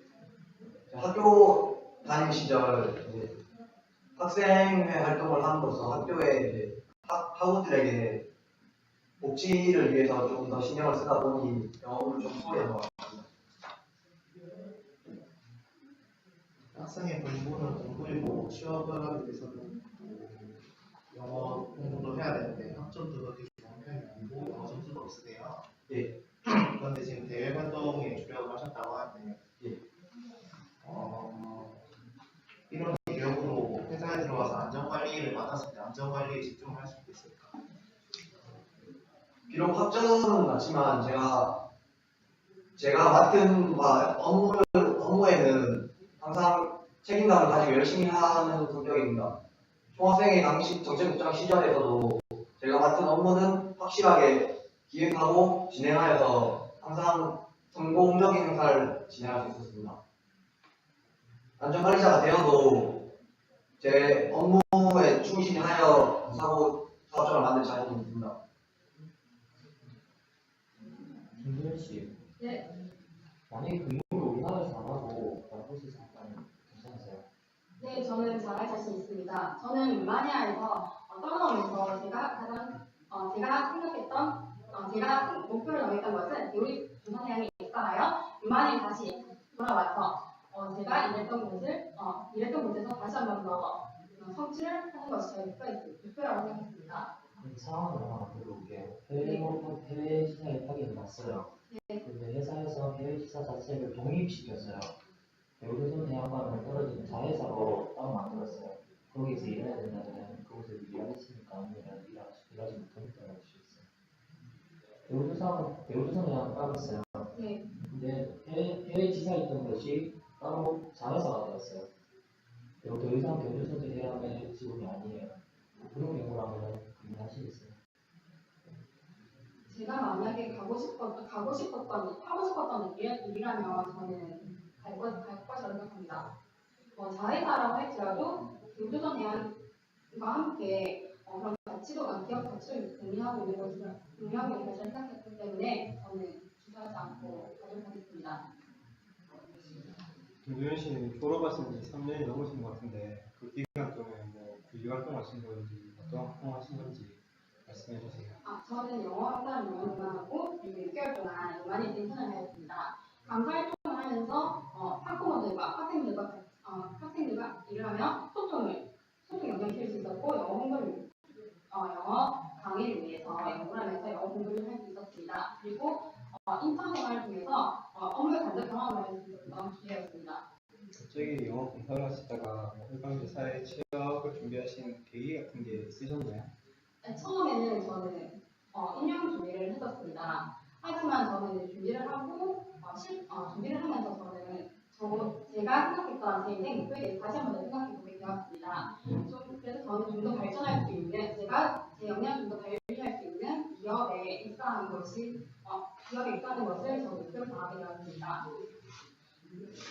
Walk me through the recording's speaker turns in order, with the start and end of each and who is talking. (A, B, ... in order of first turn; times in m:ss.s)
0:00.9-0:03.3 A
0:04.2-0:08.2 A
0:09.2-0:13.3 A
0:16.7-0:25.6 B
0:25.9-0:26.2 A
0:26.6-0:29.4 B
0:30.8-0:31.8 B
0:32.7-0:37.5 B
0:39.5-0:41.6 A
0:42.8-0:49.3 A
0:49.9-1:00.0 A
1:01.6-1:03.1 A
1:03.8-1:08.4 A
1:11.4-1:12.2 C
1:12.4-1:12.6 D
1:13.5-1:17.2 C
1:17.8-1:37.1 D
1:37.4-1:41.5 C
1:39.2-1:39.5 D
1:41.7-1:42.0 D
1:42.0-1:44.9 C
1:45.6-1:53.9 C
1:55.0-2:01.9 C
1:57.3-1:57.6 D
2:02.8-2:07.8 C
2:09.7-2:16.3 D
2:17.0-2:19.6 D
2:20.1-2:28.4 D
2:30.4-2:38.4 E
2:38.4-2:51.1 D
2:51.7-3:00.4 D
3:00.9-3:06.5 E
3:07.0-3:28.4 D